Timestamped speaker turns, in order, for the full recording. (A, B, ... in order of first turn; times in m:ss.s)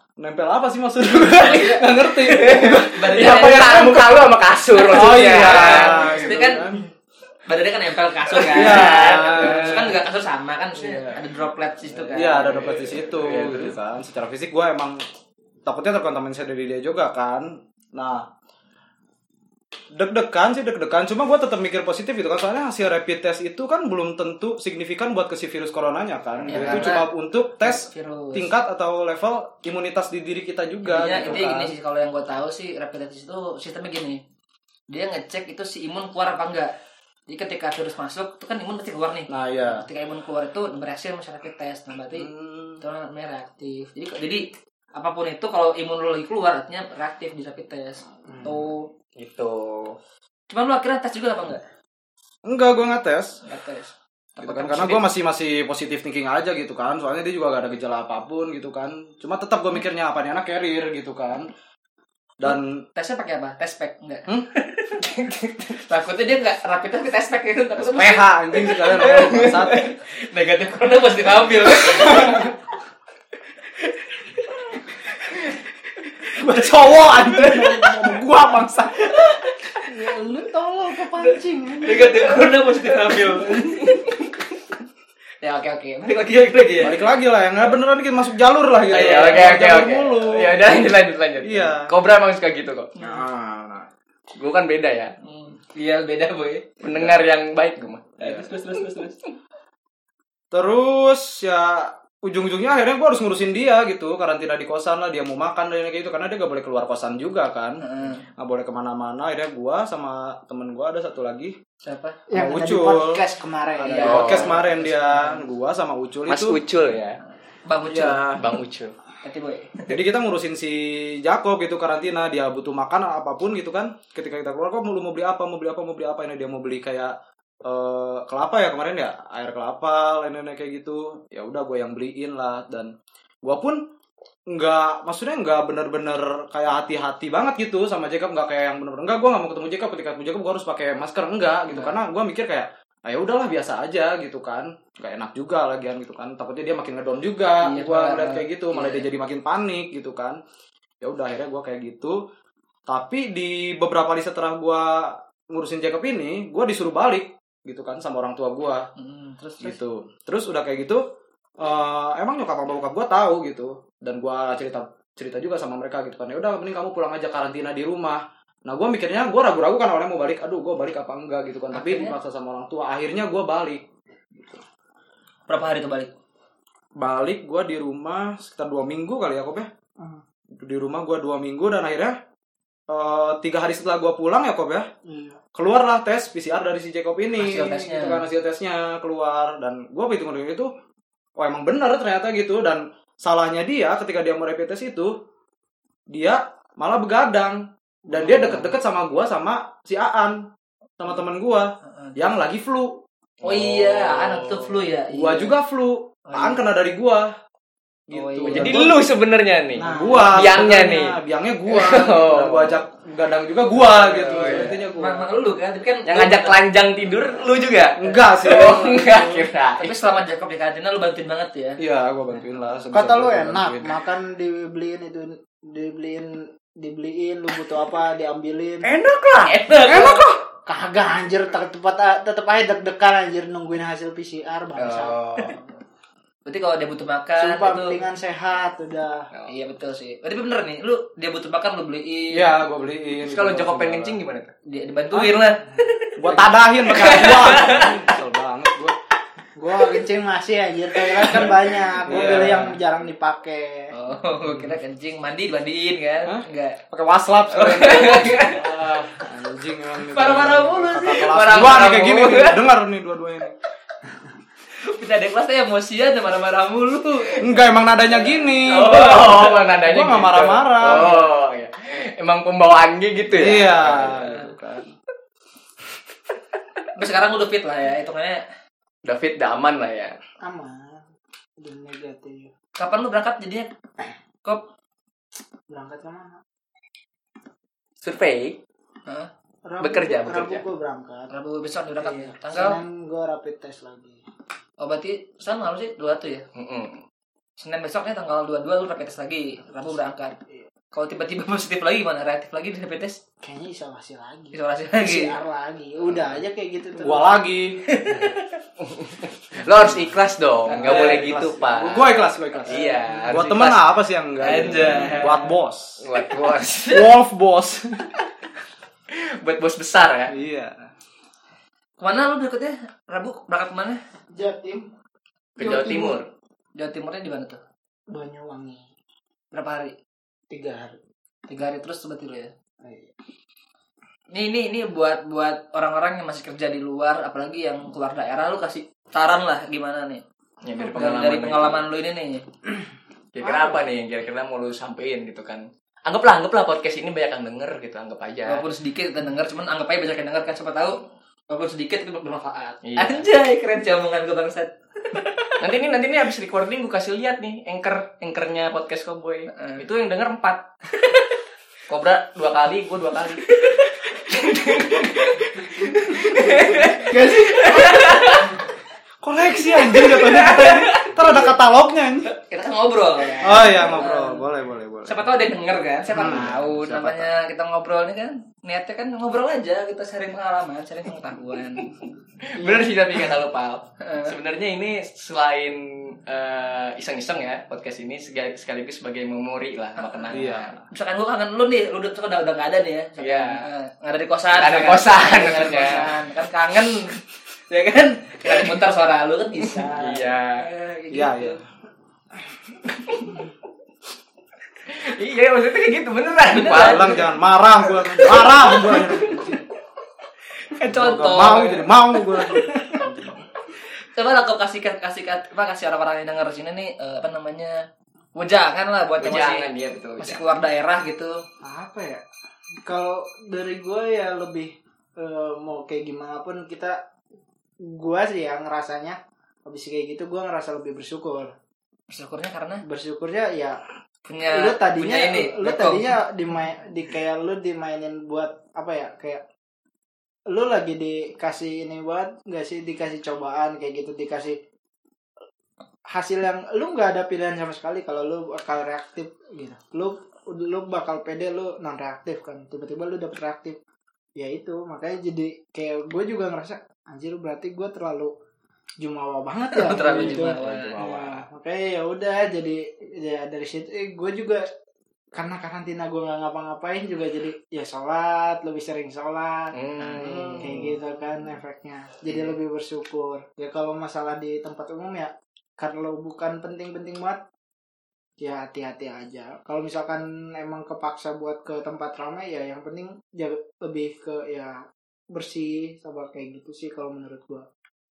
0:00.2-0:04.1 A
0:01.2-0:04.2 B
0:02.2-0:06.4 C
0:04.8-0:06.8 A
0:05.0-0:06.8 B
0:07.4-0:12.9 B
0:08.4-0:09.8 C
0:08.4-0:10.0 A
0:10.8-0:11.1 A
0:12.0-0:15.0 A
0:12.4-0:13.8 C
0:15.6-0:18.3 A
0:19.9-0:31.7 A
0:26.5-0:28.5 B
0:26.5-0:26.9 C
0:30.8-0:34.2 B
0:34.9-0:36.7 B
0:37.3-0:48.9 B
0:39.3-0:39.8 A
0:42.1-0:42.8 A
0:49.2-0:50.0 C
0:50.5-0:51.6 B
0:52.4-0:53.4 A
0:53.4-0:55.1 B
0:54.4-1:01.5 A
1:02.4-1:02.8 A
1:02.9-1:12.5 B
1:07.8-1:09.9 A
1:11.9-1:12.3 C
1:16.3-1:19.1 A
1:16.4-1:18.2 B
1:19.8-1:22.4 D
1:21.8-1:24.4 B
1:25.4-1:27.0 B
1:26.8-1:30.8 A
1:28.9-1:32.9 C
1:28.9-1:29.2 B
1:31.4-1:31.9 A
1:33.0-1:33.9 A
1:34.3-1:35.1 C
1:35.2-1:36.8 B
1:36.8-1:38.3 C
1:38.2-1:39.2 B
1:40.5-1:51.5 A
1:47.8-1:48.2 B
1:51.8-1:52.2 B
1:52.3-1:54.2 D
1:52.3-1:53.2 A
1:53.8-1:56.6 A
1:53.9-1:55.5 B
1:54.0-1:54.6 C
1:56.3-1:57.2 C
1:57.6-1:58.3 B
1:57.9-1:58.4 A
1:58.3-1:58.9 C
1:59.2-1:59.9 B
1:59.9-2:13.8 A
2:14.5-2:30.4 A
2:21.7-2:22.0 B
2:27.6-2:29.1 B
2:31.0-2:32.2 A
2:32.9-2:38.9 A
2:39.0-2:39.8 B
2:39.6-2:41.0 A
2:41.6-2:54.6 A
2:51.7-2:52.2 B
2:55.5-2:56.1 B
2:57.0-2:59.7 A
3:00.5-3:02.2 A
3:02.9-3:04.9 A
3:05.0-3:05.4 D
3:05.5-3:10.7 A
3:07.4-3:08.2 B
3:11.4-3:15.1 A
3:16.1-3:24.6 A
3:18.1-3:18.7 B
3:21.8-3:22.2 B
3:23.4-3:25.5 B
3:25.1-3:27.3 A
3:26.3-3:26.6 B
3:28.1-3:29.0 A
3:28.1-3:28.8 B
3:28.4-3:32.8 C
3:29.8-3:30.5 D
3:29.8-3:35.3 A
3:34.0-3:36.6 B
3:34.0-3:34.8 C
3:36.0-3:39.9 C
3:38.0-3:39.4 A
3:39.8-3:41.8 B
3:41.8-3:43.9 A
3:42.9-3:48.9 D
3:49.0-3:50.2 B
3:49.0-3:49.5 C
3:49.8-3:50.4 A
3:50.6-3:55.2 D
3:54.8-3:55.6 C
3:56.4-3:58.0 B
3:57.4-3:59.3 D
3:59.5-4:02.6 B
4:02.3-4:04.2 A
4:03.2-4:04.5 C
4:04.6-4:08.0 B
4:06.2-4:09.0 A
4:09.6-4:13.9 D
4:12.0-4:12.8 A
4:13.9-4:16.8 B
4:16.2-4:23.5 A
4:17.5-4:18.7 B
4:20.0-4:21.8 B
4:21.2-4:22.6 C
4:24.8-4:29.3 B
4:27.4-4:31.2 A
4:28.6-4:34.5 C
4:33.3-4:34.9 A
4:37.0-4:38.4 B
4:39.0-4:40.2 C
4:40.4-4:41.0 D
4:41.6-4:42.5 D
4:42.8-4:43.7 B
4:45.7-4:46.4 D
4:48.0-4:48.6 C
4:49.6-4:51.3 D
4:49.8-4:50.6 C
4:51.3-4:52.8 B
4:52.0-4:54.2 D
4:54.8-4:56.4 B
4:56.5-4:57.0 C
4:57.6-5:00.4 B
5:00.9-5:03.2 B
5:03.4-5:07.4 D
5:04.5-5:05.3 B
5:07.0-5:07.8 A
5:07.8-5:08.6 B
5:08.8-5:13.9 C
5:10.7-5:11.2 B
5:10.8-5:16.0 A
5:14.4-5:15.5 B
5:16.0-5:17.1 C
5:16.9-5:18.1 A
5:19.1-5:20.3 C
5:20.3-5:20.9 A
5:22.0-5:24.0 B
5:24.3-5:24.9 D
5:25.6-5:26.2 D
5:25.6-5:26.2 C
5:26.8-5:27.6 B
5:28.1-5:28.8 D
5:29.5-5:29.9 B
5:30.5-5:31.0 D
5:31.5-5:32.5 B
5:32.8-5:33.1 D
5:34.3-5:40.2 B
5:40.6-5:41.8 C
5:40.9-5:42.4 B
5:43.3-5:48.6 C
5:43.4-5:43.8 D
5:48.5-5:55.5 B
5:52.8-5:53.2 C
5:55.6-6:00.6 C
5:59.5-5:59.8 B
6:01.9-6:07.0 C
6:03.6-6:03.9 B
6:04.4-6:05.2 B
6:05.8-6:08.5 B
6:07.0-6:08.2 D
6:07.6-6:08.4 C
6:09.2-6:12.3 A
6:09.7-6:11.5 B
6:12.3-6:14.5 B
6:13.4-6:15.2 A
6:15.0-6:21.9 B
6:16.1-6:16.8 A
6:16.2-6:17.2 C
6:22.4-6:30.8 C
6:22.6-6:22.9 B
6:24.0-6:24.3 B
6:30.0-6:41.6 B
6:30.3-6:30.8 A
6:33.2-6:33.6 C
6:34.5-6:36.2 C
6:39.7-6:40.6 C
6:41.1-6:41.6 A
6:44.9-6:47.2 C
6:46.5-6:47.2 B
6:46.6-6:49.6 A
6:48.2-6:49.6 B
6:48.2-6:49.1 C
6:50.7-6:53.0 B
6:50.8-6:53.4 A
6:54.1-7:01.4 B
6:59.2-7:00.4 C
7:01.6-7:02.2 D
7:02.8-7:07.0 D
7:07.8-7:11.6 D
7:12.1-7:12.8 B
7:12.8-7:13.8 D
7:14.2-7:16.2 B
7:14.5-7:19.4 D
7:20.5-7:24.6 D
7:26.1-7:33.8 D
7:34.4-7:38.3 D
7:39.0-7:44.6 D
7:39.7-7:40.9 B
7:39.9-7:41.2 C
7:45.3-7:49.7 D
7:49.7-7:50.9 C
7:50.0-7:50.9 B
7:50.6-7:57.4 D
7:58.4-8:04.8 D
8:05.3-8:07.7 D